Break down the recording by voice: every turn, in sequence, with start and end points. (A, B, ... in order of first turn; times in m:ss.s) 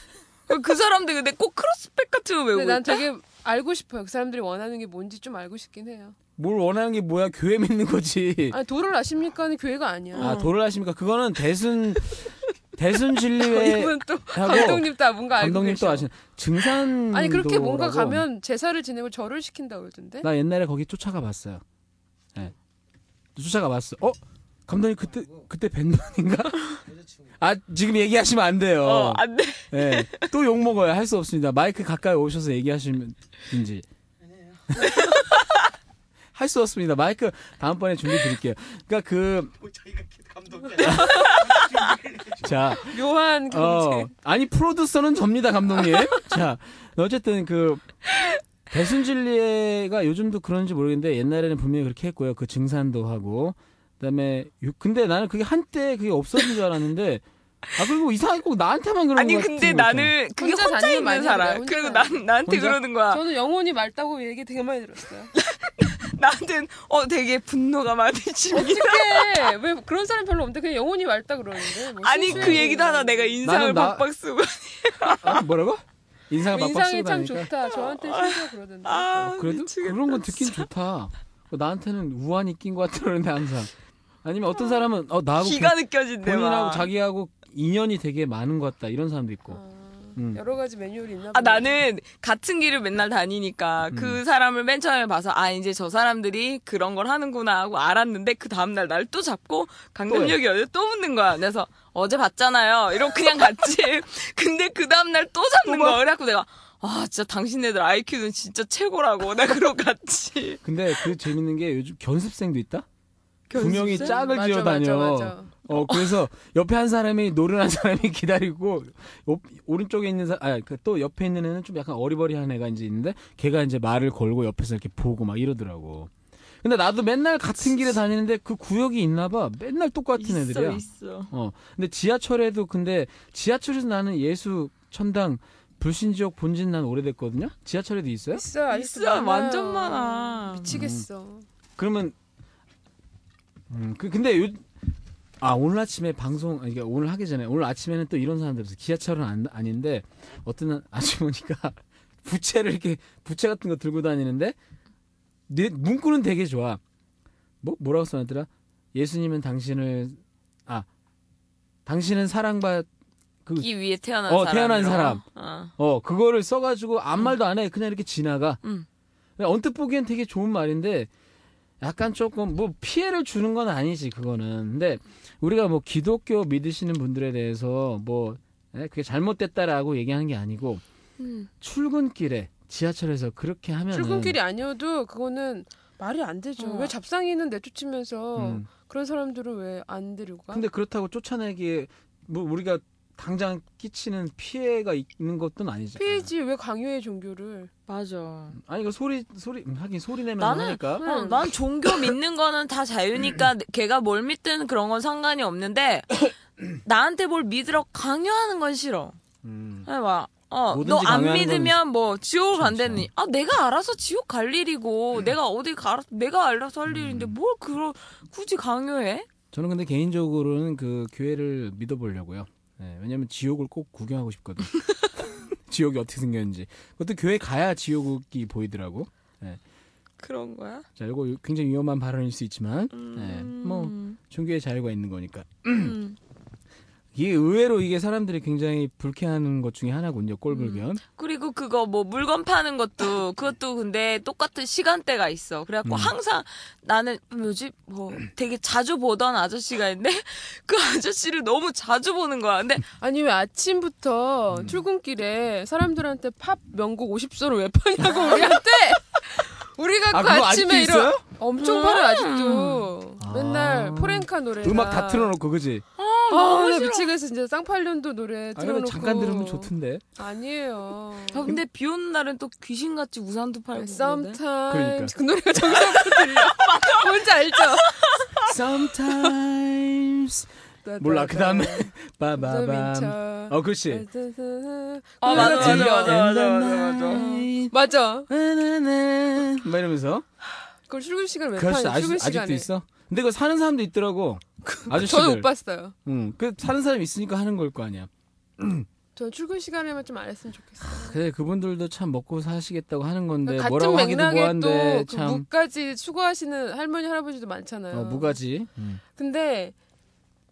0:00.5-0:03.0 A
0:02.5-0:06.2 B
0:06.4-0:08.6 C
0:08.5-0:10.4 B
0:10.1-0:10.5 A
0:10.2-0:18.2 C
0:13.3-0:16.1 B
0:16.6-0:20.3 B
0:20.2-0:21.6 C
0:23.4-0:33.8 C
0:28.8-0:30.3 A
0:34.7-0:35.2 C
0:36.3-0:47.9 C
0:40.8-0:42.0 A
0:40.8-0:41.5 B
0:42.8-0:44.1 B
0:48.7-0:57.2 C
0:57.8-1:00.1 C
0:59.2-1:03.2 A
1:00.4-1:02.2 B
1:02.5-1:02.8 C
1:03.1-1:05.3 B
1:05.3-1:09.6 A
1:08.5-1:13.4 B
1:11.7-1:15.4 A
1:12.2-1:12.7 C
1:13.4-1:14.0 C
1:15.0-1:17.5 C
1:16.4-1:19.1 B
1:17.6-1:20.7 A
1:19.1-1:23.7 C
1:24.2-1:29.6 C
1:25.4-1:26.9 A
1:29.5-1:31.8 B
1:31.3-1:51.1 A
1:33.9-1:34.2 C
1:40.1-1:40.4 C
1:45.6-1:46.0 C
1:50.6-1:52.8 C
1:53.5-1:54.2 A
1:53.5-2:06.1 C
1:53.6-1:55.5 B
1:55.7-1:56.2 A
2:06.6-2:18.4 C
2:10.2-2:11.3 A
2:18.3-2:21.4 B
2:18.7-2:20.8 A
2:20.6-2:21.0 C
2:21.8-2:22.1 C
2:23.7-2:24.7 C
2:25.4-2:34.6 C
2:35.5-2:36.8 C
2:37.6-2:40.9 C
2:41.8-2:42.9 C
2:43.6-2:45.7 A
2:44.3-2:45.2 C
2:45.8-2:48.6 C
2:49.4-2:51.1 C
2:51.8-3:00.8 C
3:01.2-3:01.5 A
3:01.6-3:04.4 C
3:03.9-3:10.6 B
3:06.6-3:06.9 A
3:08.4-3:08.6 C
3:10.5-3:16.2 C
3:16.0-3:17.7 B
3:17.9-3:18.6 A
3:18.6-3:21.0 C
3:20.4-3:29.2 A
3:21.0-3:21.5 B
3:29.4-3:29.9 C
3:29.8-3:39.3 A
3:30.7-3:31.8 C
3:32.5-3:33.1 C
3:36.9-3:37.3 C
3:39.5-3:49.6 C
3:50.2-3:50.8 A
3:51.0-3:56.0 C
3:52.9-3:54.2 A
3:55.7-3:56.2 A
3:57.1-4:01.0 C
4:00.5-4:12.8 A
4:05.8-4:06.1 C
4:13.0-4:25.4 B
4:14.5-4:14.8 C
4:20.1-4:21.2 C
4:21.6-4:22.9 A
4:23.2-4:25.8 C
4:26.0-4:27.1 A
4:26.3-4:31.6 B
4:28.6-4:30.0 C
4:31.3-4:34.4 A
4:33.7-4:38.2 B
4:34.7-4:35.1 C
4:35.7-4:37.2 A
4:37.7-4:38.5 A
4:38.4-4:40.5 C
4:40.8-4:46.2 B
4:41.0-4:44.0 C
4:45.2-4:47.4 A
4:45.3-4:47.7 C
4:47.1-4:48.3 B
4:48.3-4:50.2 C
4:50.9-4:52.7 B
4:51.6-4:55.5 C
4:54.6-4:55.9 B
4:56.0-4:58.9 C
4:59.2-5:01.2 B
5:00.9-5:05.4 C
5:03.4-5:08.4 B
5:07.9-5:09.0 C
5:09.2-5:09.7 B